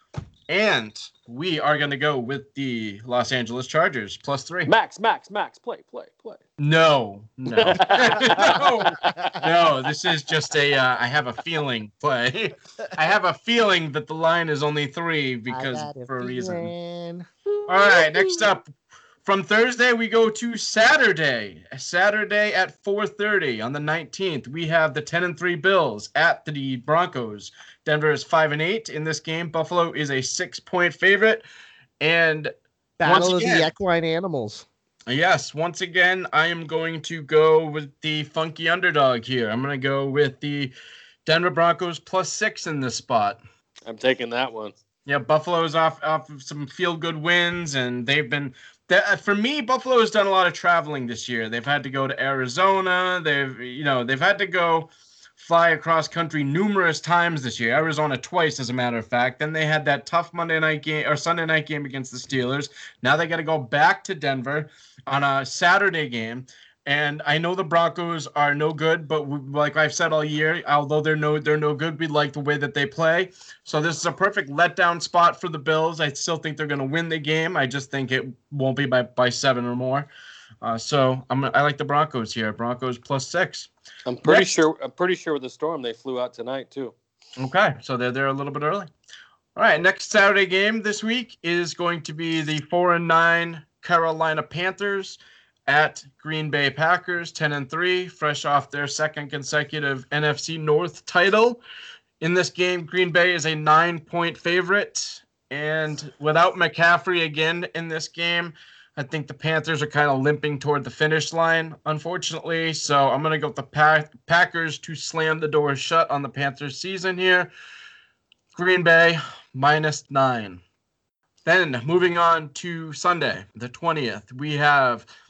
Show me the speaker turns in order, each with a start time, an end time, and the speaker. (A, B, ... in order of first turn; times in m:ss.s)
0:00.5-0:04.7 A
0:04.6-0:06.4 B
0:06.6-0:16.7 A
0:07.6-0:09.5 B
0:08.2-0:08.6 C
0:15.5-0:17.3 C
0:17.7-0:18.7 A
0:19.2-0:31.5 A
0:32.0-0:32.5 A
0:33.0-0:34.6 C
0:33.0-0:33.7 A
0:35.1-0:40.7 A
0:41.2-0:43.4 A
0:43.8-0:44.7 B
0:45.0-1:20.1 A
1:20.6-1:23.7 A
1:24.1-1:26.9 B
1:24.2-1:24.5 A
1:27.4-1:28.9 A
1:29.6-1:41.6 A
1:42.2-1:57.5 A
1:58.5-2:00.6 A
2:01.4-2:05.0 A